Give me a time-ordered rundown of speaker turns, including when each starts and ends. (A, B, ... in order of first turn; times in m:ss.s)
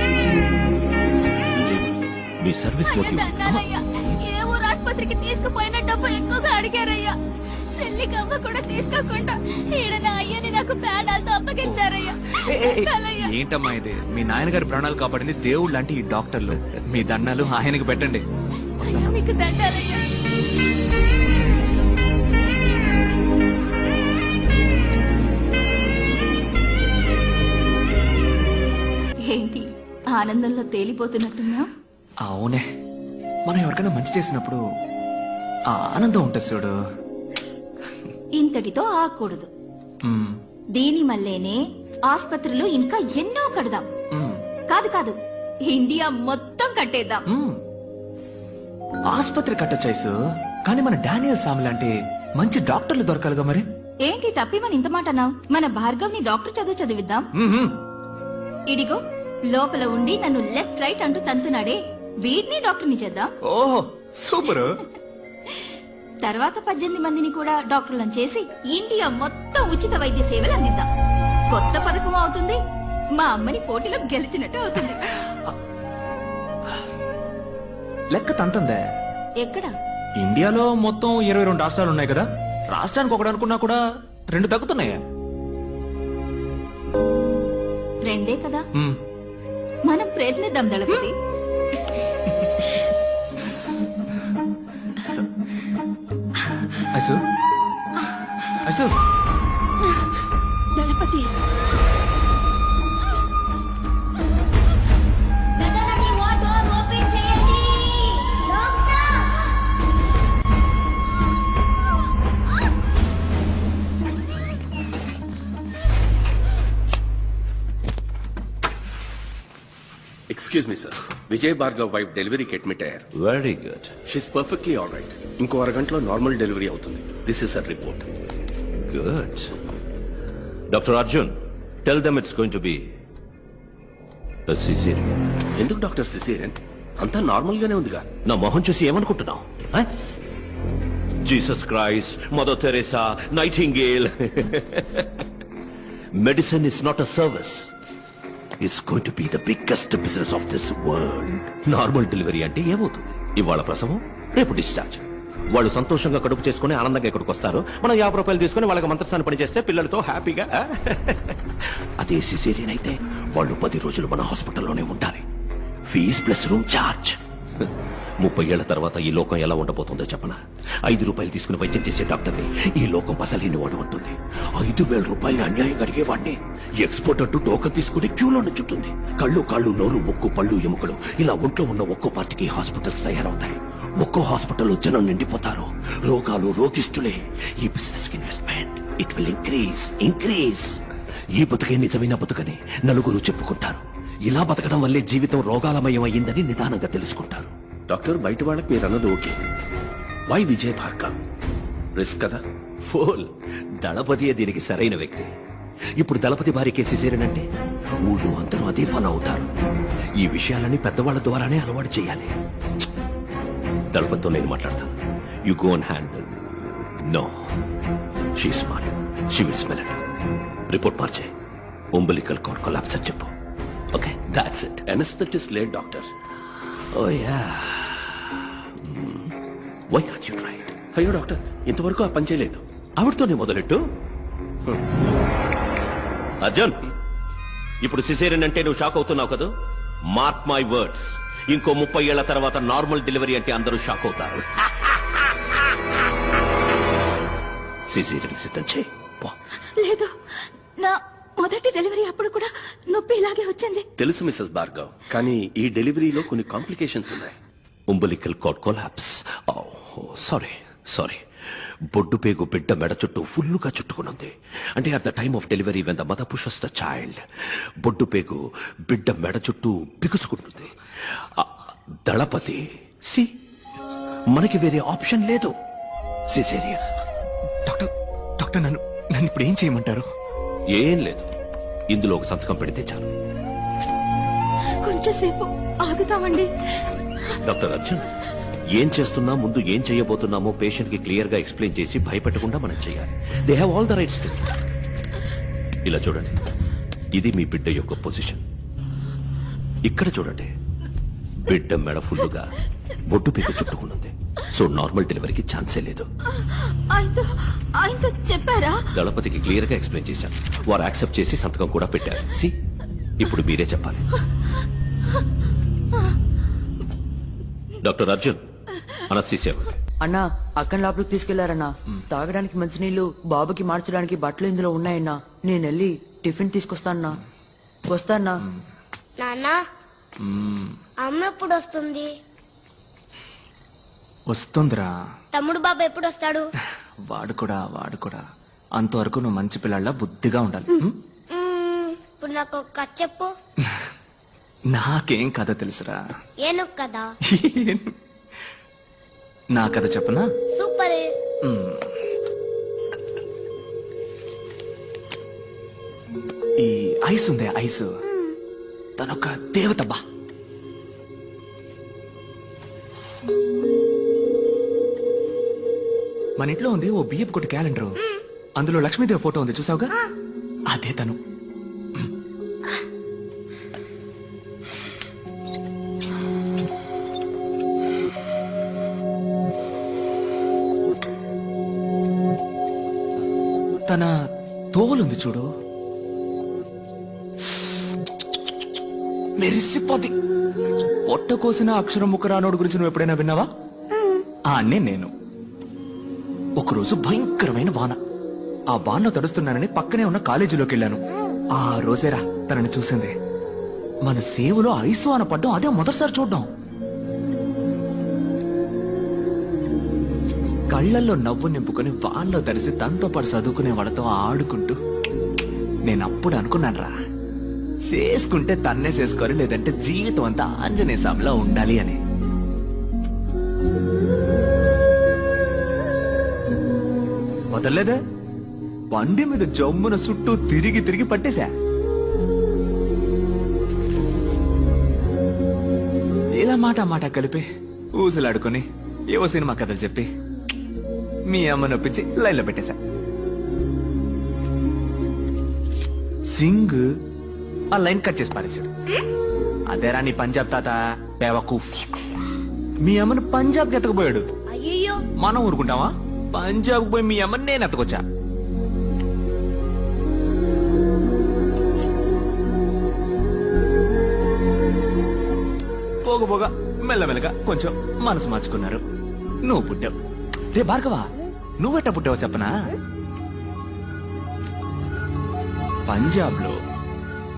0:01.6-0:03.6 A
0:02.9-0:07.1 B
0:07.8-0:13.3 B
0:11.6-0:18.2 C
0:18.8-0:20.0 B
0:18.8-0:19.1 C
0:29.3-0:31.7 B
0:32.2-0:32.6 C
0:33.5-0:34.6 C
0:35.7-0:36.7 C
0:38.3-0:39.5 B
0:40.0-0:40.4 C
0:40.7-0:43.9 B
0:44.1-0:44.4 C
0:44.7-0:45.2 B
0:45.7-0:47.2 B
0:47.3-0:47.6 C
0:49.1-0:50.1 C
0:50.6-0:53.6 C
0:54.0-0:57.3 B
0:57.4-0:57.7 C
0:58.7-1:03.3 B
1:03.4-1:04.8 C
1:06.2-1:10.8 B
1:11.5-1:12.6 B
1:13.2-1:15.0 B
1:18.1-1:18.8 C
1:19.4-1:19.7 B
1:20.2-1:25.0 C
1:28.0-1:28.6 B
1:29.8-1:31.1 B
1:36.9-1:37.2 C
1:38.6-1:38.9 C
1:40.7-1:41.3 B
1:45.6-1:49.4 D
2:00.3-2:03.0 E
2:03.1-2:03.9 A
2:04.0-2:08.1 E
2:08.8-2:09.5 A
2:10.7-2:11.3 A
2:11.8-2:12.8 A
2:14.5-2:15.2 A
2:15.6-2:18.1 E
2:18.2-2:19.9 A
2:21.2-2:25.3 A
2:26.2-2:27.7 A
2:28.6-2:41.4 A
2:42.0-2:45.2 A
2:45.9-3:10.8 A
3:11.3-3:17.5 A
3:17.9-3:19.4 E
3:20.3-3:21.2 E
3:22.0-3:22.4 E
3:22.8-3:23.3 A
3:23.8-3:25.3 A
3:26.0-3:27.4 A
3:28.0-3:29.5 A
3:30.2-3:32.3 A
3:33.9-3:35.0 A
3:35.5-3:37.3 A
3:38.4-3:40.0 A
3:40.7-3:41.3 A
3:41.9-3:43.3 A
3:43.9-3:44.8 A
3:44.9-3:46.1 E
3:46.6-3:49.3 A
3:49.9-3:50.7 A
3:50.9-3:52.6 E
3:53.0-3:53.8 A
3:56.4-3:56.8 A
3:57.8-3:59.5 A
4:00.1-4:05.0 A
4:07.9-4:09.3 A
4:09.8-4:10.1 B
4:10.8-4:13.8 B
4:14.0-4:17.4 E
4:17.9-4:21.2 A
4:21.9-4:27.2 A
4:27.8-4:30.7 A
4:31.4-4:33.2 A
4:34.3-4:35.5 A
4:36.3-4:36.8 A
4:37.6-4:40.1 C
4:40.7-4:41.3 A
4:41.9-4:43.1 A
4:44.8-4:47.3 B
4:47.4-4:48.0 A
4:48.7-4:54.5 A
4:55.8-4:56.3 A
4:57.1-4:58.4 A
4:59.8-5:00.5 A
5:01.4-5:02.5 A
5:03.1-5:06.1 A
5:06.4-5:08.9 B
5:08.9-5:12.5 A
5:13.2-5:14.0 A
5:17.8-5:18.4 A
5:19.1-5:19.7 A
5:20.0-5:27.2 F
5:27.9-5:28.3 F
5:29.2-5:29.6 D
5:30.2-5:30.8 C
5:31.0-5:32.1 D
5:34.3-5:34.9 C
5:35.3-5:36.4 D
5:37.1-5:38.2 C
5:38.8-5:41.0 C
5:41.3-5:43.3 D
5:44.7-5:46.0 C
5:46.4-5:47.1 D
5:47.3-5:47.9 C
5:49.5-5:50.2 C
5:50.5-5:51.1 D
5:51.4-5:51.9 C
5:56.6-5:57.9 C
5:59.0-6:00.0 C
6:06.4-6:08.0 C
6:08.6-6:09.9 C
6:10.7-6:11.2 C
6:23.9-6:24.1 C
6:24.7-6:25.5 C
6:29.4-6:30.1 C
6:31.0-6:33.5 C
6:33.9-6:34.2 D
6:34.5-6:35.1 C
6:36.6-6:38.0 C
6:38.7-6:41.0 C
6:41.6-6:43.1 C
6:44.0-6:46.5 C
6:50.7-6:54.8 C
6:55.8-6:56.9 C
6:57.9-7:02.0 C
7:07.5-7:08.0 C
7:08.9-7:11.5 C
7:16.4-7:17.4 C
7:18.0-7:20.1 C
7:21.3-7:22.8 C
7:26.3-7:26.8 C
7:27.7-7:28.7 C
7:29.7-7:31.8 C
7:32.8-7:34.2 C
7:34.5-7:35.0 D
7:35.2-7:38.0 C
7:46.0-7:48.8 C
7:49.4-7:49.9 C
7:50.5-7:52.5 C
7:55.9-7:56.5 C